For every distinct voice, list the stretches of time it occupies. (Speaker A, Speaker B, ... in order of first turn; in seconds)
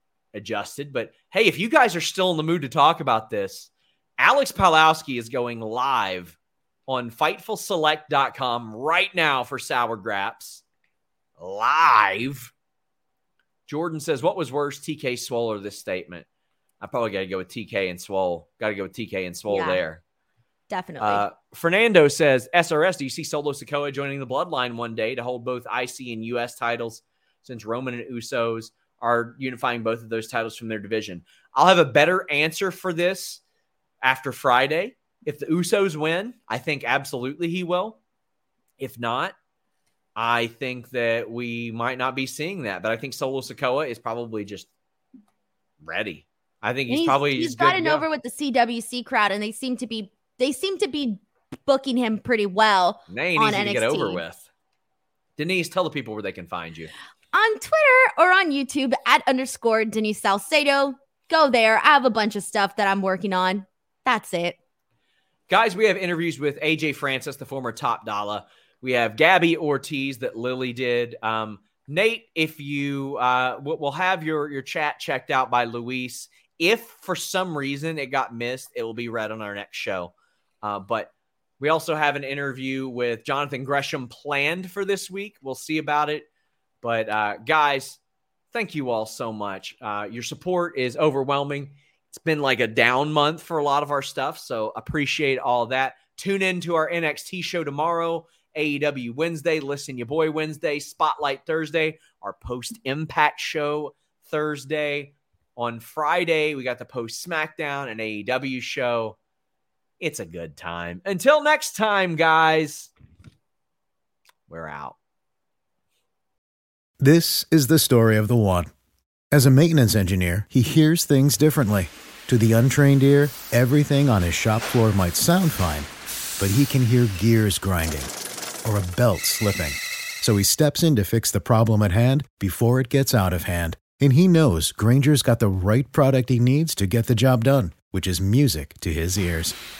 Speaker A: 0.3-10.6, 11.4-12.5, 13.7-16.2, 16.8-20.0, 21.0-33.4, 34.0-38.0, 38.8-39.3, 40.1-44.7, 45.8-48.0, 53.1-54.5, 55.4-56.9, 65.5-86.3, 86.8-88.0, 88.5-109.2, 110.0-112.9, 114.5-115.0
Speaker B: 19.5-19.8, 20.7-21.2, 46.9-54.2, 57.3-64.6
Speaker C: 117.0-118.7, 119.3-139.6